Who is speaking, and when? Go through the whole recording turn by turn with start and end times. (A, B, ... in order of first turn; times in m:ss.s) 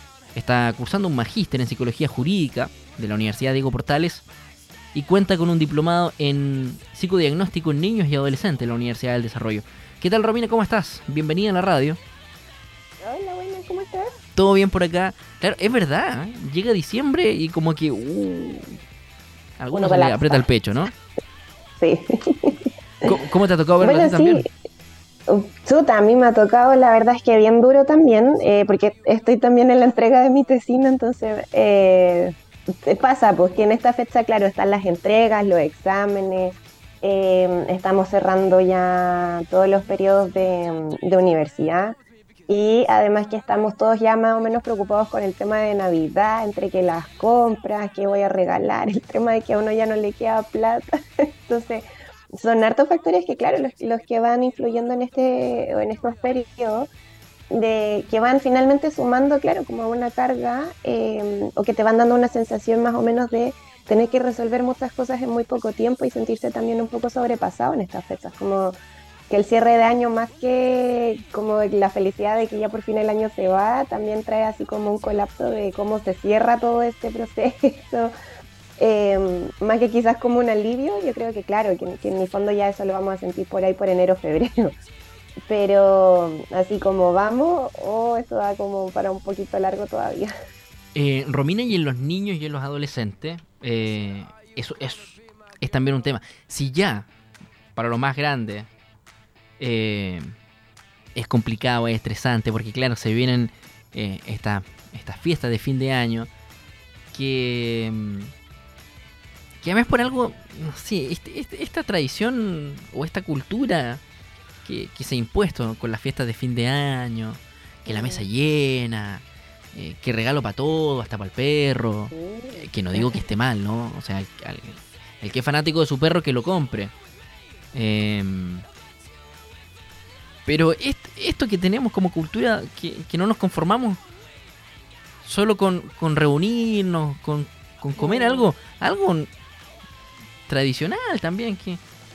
0:00.3-0:04.2 A
0:04.9-0:12.0 A
0:13.0-0:14.1 B
0:14.4-0:18.7 A
0:19.6-0:20.9 A
0:19.7-0:20.5 B
0:21.8-0:22.6 B
0:23.0-0:24.4 A
0:23.8-0:24.5 B
0:25.3-0:32.3 B
0:32.8-0:42.0 B
0:42.5-0:50.9 B
0:51.4-0:56.9 B
0:57.5-1:08.8 B
1:09.3-1:18.1 B
1:18.8-1:24.7 B
1:25.5-1:30.3 B
1:30.9-1:37.1 A
1:37.7-1:38.7 A
1:39.6-1:40.3 A
1:41.1-1:46.3 A
1:47.1-1:48.3 A
1:49.6-1:54.0 A
1:54.6-2:06.9 A
1:57.8-1:58.3 B
2:02.1-2:03.2 B
2:07.7-2:08.6 A
2:10.4-2:14.0 A
2:15.2-2:19.3 A
2:18.0-2:18.5 B
2:20.5-2:21.8 A